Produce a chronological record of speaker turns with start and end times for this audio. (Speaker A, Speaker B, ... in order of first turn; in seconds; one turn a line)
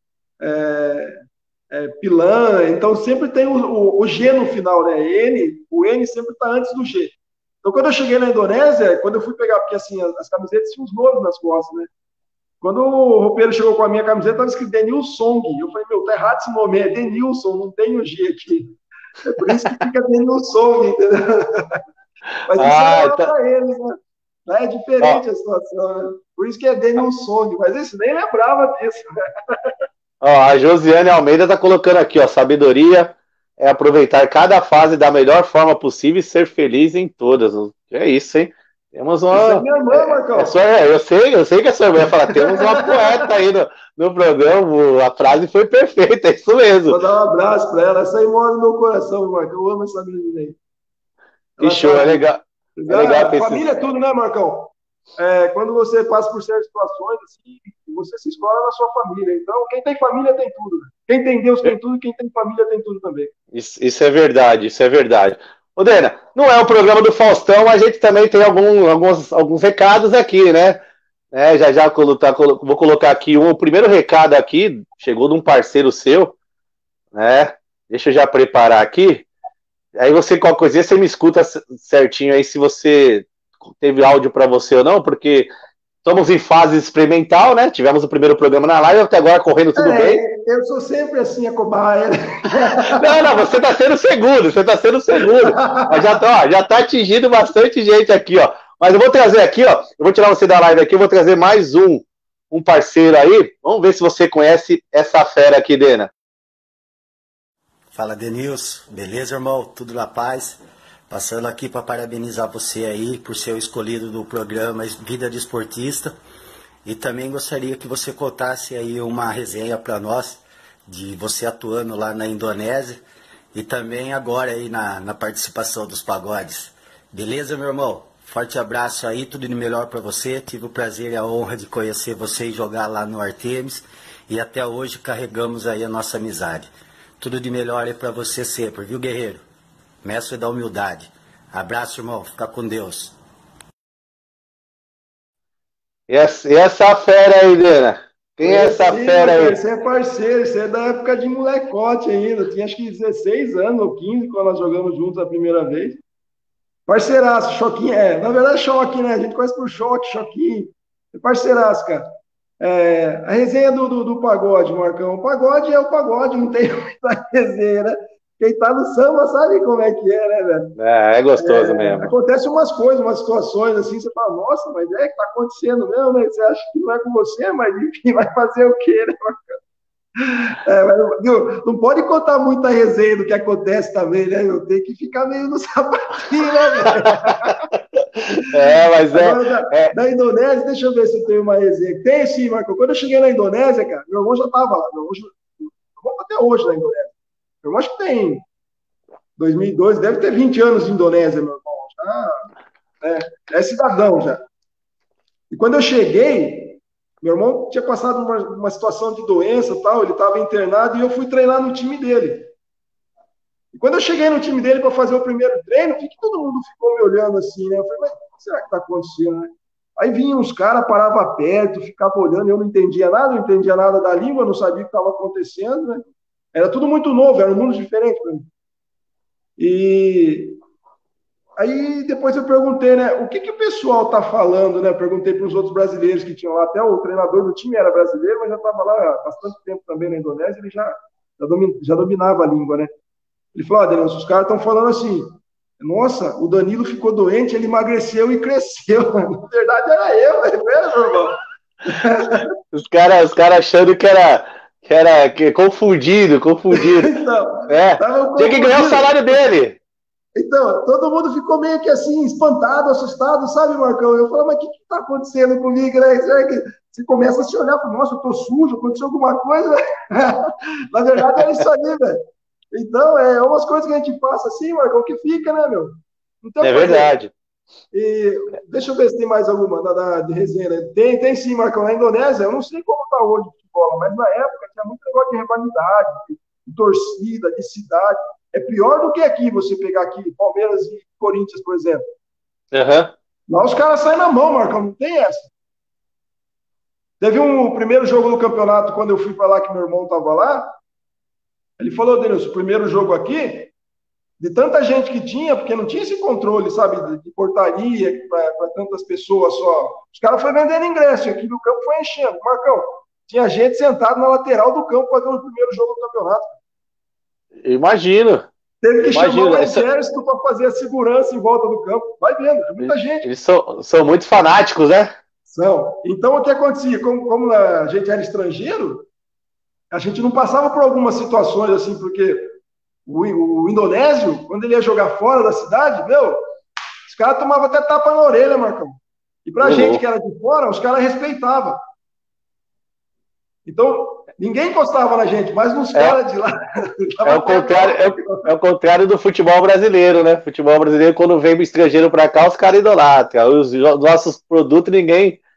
Speaker A: 0.4-1.2
Speaker A: 1.7-11.9
Speaker A: 12.6-21.8
Speaker A: 22.5-23.9
Speaker B: 22.5-23.3
Speaker A: 24.5-29.7
Speaker B: 30.2-47.0
Speaker A: 39.3-40.5
Speaker A: 42.3-43.2
Speaker A: 46.9-50.5
Speaker A: 51.6-52.2
Speaker B: 51.6-53.6
Speaker A: 52.8-63.3
Speaker B: 63.5-70.8
Speaker B: 71.3-76.3
Speaker B: 77.1-79.2
Speaker B: 80.0-85.5
Speaker B: 86.0-90.2
Speaker A: 89.8-93.3
Speaker B: 92.8-106.1
Speaker A: 95.3-96.1
Speaker C: 107.9-110.6
Speaker C: 111.1-116.1
Speaker C: 116.8-123.0
Speaker C: 123.5-139.4
Speaker C: 140.0-143.1
Speaker B: 146.1-149.6
Speaker A: 148.4-156.0
Speaker A: 156.9-162.1
Speaker A: 162.6-170.7
Speaker B: 170.8-172.1
Speaker A: 171.4-179.6
Speaker A: 180.2-187.6
Speaker B: 187.0-187.3
Speaker B: 187.9-189.9
Speaker A: 188.3-197.1
Speaker A: 197.6-198.4
Speaker A: 199.4-202.4
Speaker A: 203.0-204.4
Speaker A: 205.5-212.5
Speaker A: 213.7-228.4
Speaker A: 229.6-230.6
Speaker A: 231.6-242.9
Speaker A: 243.5-252.5
Speaker B: 252.7-257.1
Speaker A: 256.7-259.1
Speaker B: 257.7-259.8
Speaker A: 260.4-277.1
Speaker B: 276.6-277.3
Speaker A: 277.9-292.0
Speaker B: 292.7-293.1
Speaker A: 293.5-295.5
Speaker A: 297.2-300.8
Speaker A: 301.8-303.7
Speaker A: 304.4-316.6
Speaker B: 317.6-318.5
Speaker A: 318.8-323.2
Speaker B: 319.1-319.8
Speaker B: 322.8-325.1
Speaker A: 325.5-329.1
Speaker A: 329.9-332.5
Speaker A: 333.1-336.4
Speaker A: 337.1-341.8
Speaker B: 339.6-340.0
Speaker A: 343.6-348.5
Speaker B: 347.2-355.4